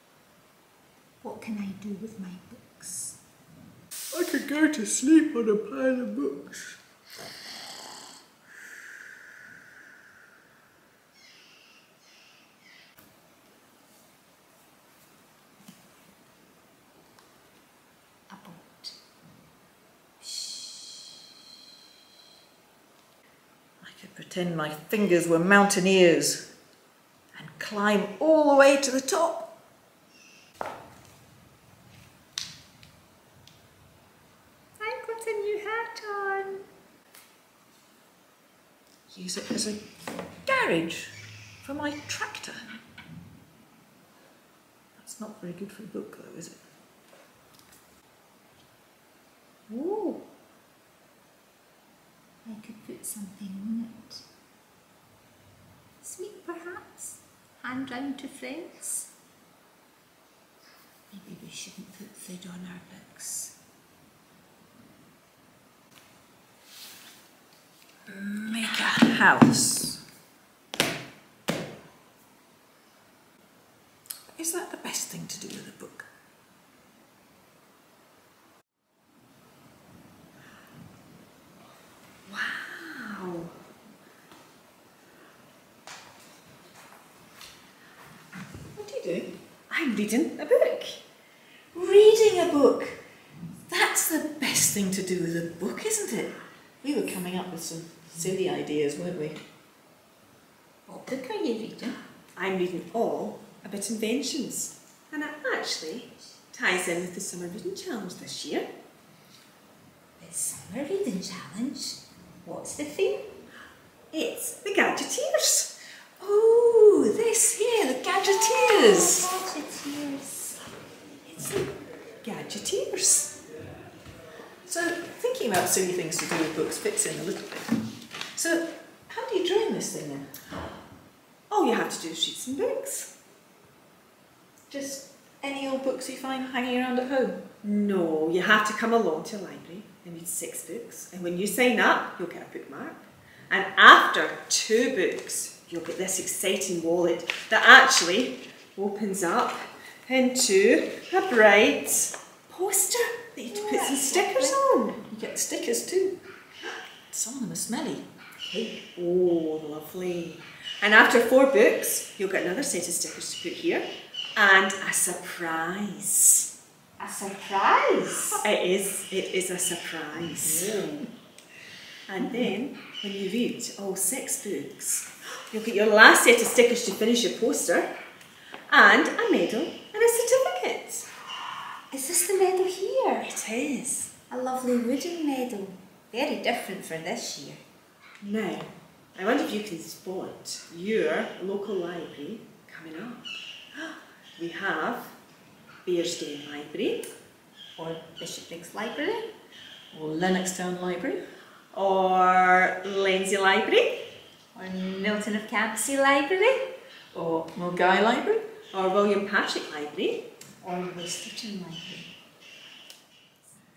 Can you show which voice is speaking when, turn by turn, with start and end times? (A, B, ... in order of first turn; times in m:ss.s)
0:01.2-0:03.2 A
0:04.1-0:06.8 B
0:18.3-0:18.9 A
0:20.2-0:21.0 A
0:23.8-0:26.4 B
0:27.3-0:29.5 B
0:34.8-0:36.6 A
0:39.1-0:39.8 B
0:40.4-0:42.8 B
0:45.0-0:46.6 B
0:49.7-0:50.2 A
0:52.4-0:54.2 A
0:56.0-0:59.1 A
1:01.1-1:03.5 A
1:08.1-1:10.0 B
1:14.3-1:16.1 B
1:22.3-1:23.5 C
1:28.7-1:29.3 B
1:29.7-1:31.0 C
1:31.7-1:33.0 B
1:33.7-1:39.4 B
1:40.9-1:42.0 A
1:42.4-1:48.7 C
1:50.2-1:53.3 A
1:54.1-1:55.7 C
1:56.2-1:59.3 B
1:58.4-2:00.6 A
2:02.2-2:03.3 C
2:04.6-2:07.8 B
2:08.3-2:10.3 B
2:11.5-2:13.1 C
2:14.7-2:17.4 B
2:17.6-2:35.0 C
2:33.5-2:34.6 A
2:35.1-2:36.2 B
2:37.1-2:38.0 B
2:38.5-2:38.8 A
2:38.9-2:46.5 C
2:47.0-2:48.4 A
2:48.4-2:50.8 C
2:50.5-2:51.0 B
2:52.1-2:57.9 C
2:58.7-3:01.1 C
3:01.9-3:03.3 A
3:03.2-3:04.1 C
3:04.3-3:07.6 A
3:08.2-3:15.1 C
3:15.8-3:17.1 C
3:17.8-3:19.3 A
3:19.9-3:21.2 B
3:21.7-3:24.0 C
3:24.5-3:26.6 A
3:27.1-3:28.4 B
3:28.7-3:30.2 C
3:30.6-3:32.1 A